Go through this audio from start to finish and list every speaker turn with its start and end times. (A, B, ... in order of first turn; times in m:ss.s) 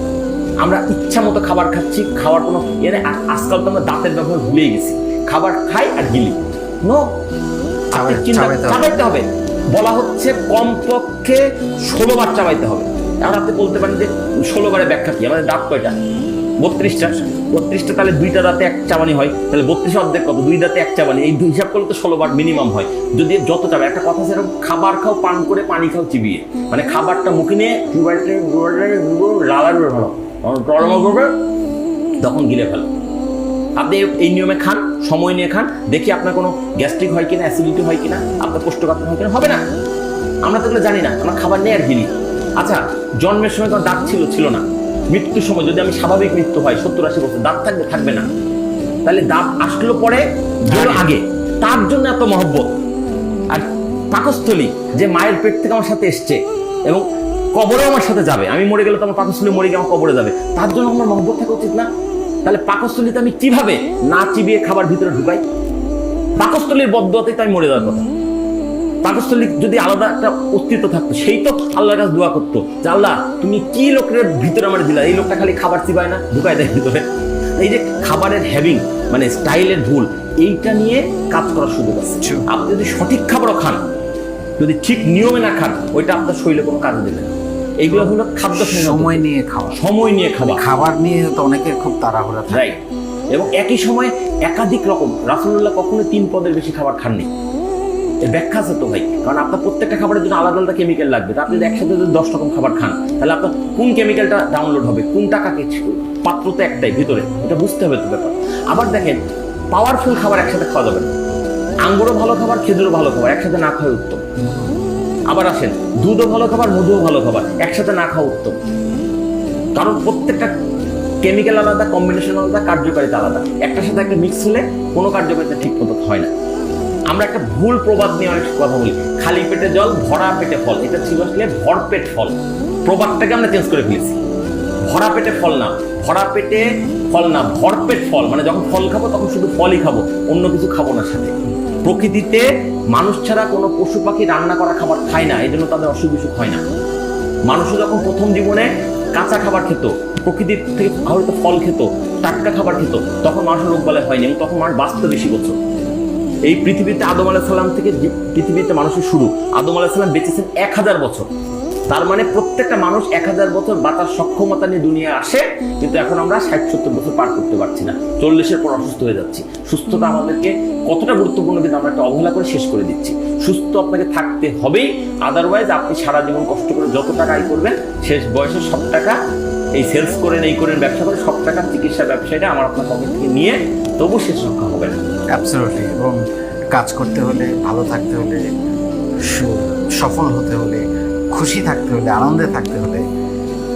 0:00.6-0:07.0 A
0:07.9-0:08.9 B
0:07.9-0:16.0 A
0:16.6-0:31.3 A
0:16.8-0:17.2 B
0:32.2-0:32.9 A
0:33.8-0:39.6 A
0:40.4-0:42.1 A
0:42.6-0:48.3 A
0:49.0-0:52.6 A
0:50.7-0:51.1 B
0:53.5-0:57.0 A
0:57.5-1:01.9 A
1:02.4-1:05.4 A
1:06.4-1:08.0 A
1:09.0-1:17.0 A
1:17.6-1:23.8 A
1:22.2-1:22.4 B
1:24.6-1:30.6 A
1:27.9-1:29.8 B
1:30.4-1:32.7 B
1:32.5-1:32.8 A
1:33.3-1:37.3 A
1:38.2-1:49.2 A
1:49.7-1:51.1 A
1:51.8-1:54.2 A
1:54.4-1:54.7 B
1:55.3-1:58.6 A
1:59.8-2:00.5 A
2:01.2-2:06.3 A
2:07.1-2:14.2 A
2:14.9-2:21.3 A
2:21.8-2:26.6 A
2:27.5-2:35.6 A
2:36.4-2:41.3 A
2:41.9-2:59.2 A
2:59.7-3:05.0 A
3:05.3-3:06.2 B
3:06.7-3:08.5 B
3:09.3-3:13.0 B